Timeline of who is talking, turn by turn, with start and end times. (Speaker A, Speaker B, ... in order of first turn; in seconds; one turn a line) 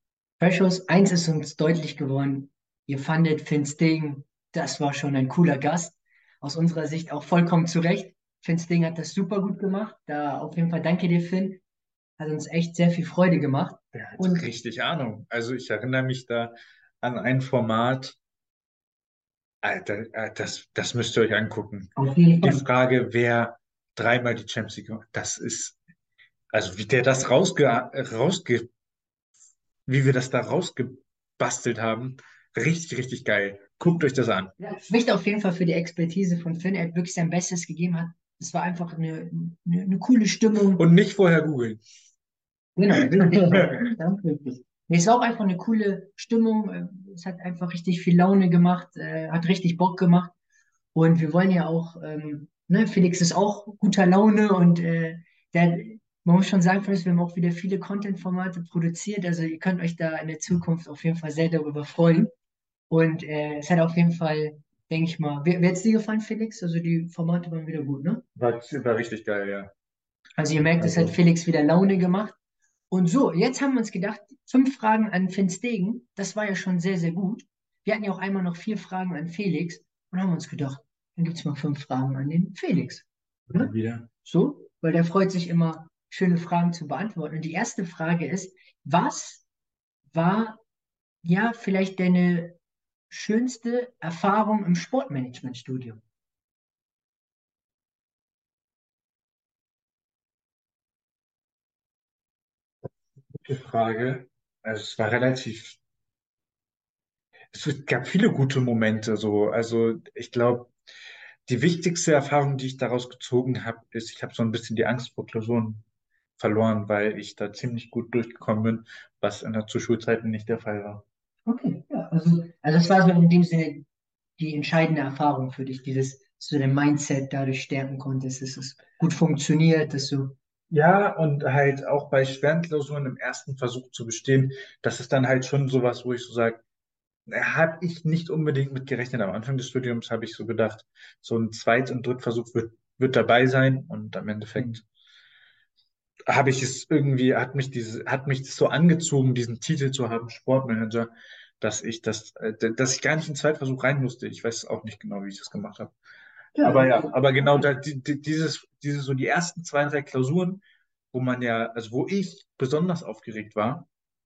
Speaker A: 0.4-11.6
Speaker A: 12.2-14.4
Speaker B: 13.9-18.2
Speaker B: 19.6-21.9
Speaker A: 21.9-22.6
Speaker B: 22.4-25.8
Speaker B: 26.5-28.7
Speaker B: 29.9-34.5
Speaker A: 34.6-40.8
Speaker B: 40.8-41.8
Speaker A: 42.8-50.3
Speaker A: 50.9-62.3
Speaker A: 62.9-68.2
Speaker B: 68.3-69.7
Speaker A: 70.4-72.4
Speaker B: 70.8-71.2
Speaker A: 72.9-83.7
Speaker B: 83.5-84.1
Speaker A: 84.2-89.4
Speaker A: 90.1-90.6
Speaker A: 91.2-92.6
Speaker A: 93.1-96.0
Speaker B: 103.4-105.8
Speaker B: 107.5-110.7
Speaker B: 111.5-115.8
Speaker B: 116.4-121.0
Speaker A: 121.5-123.8
Speaker A: 124.4-130.3
Speaker B: 130.7-136.6
Speaker B: 137.3-144.8
Speaker B: 146.3-155.9
Speaker A: 156.6-157.7
Speaker B: 156.6-163.9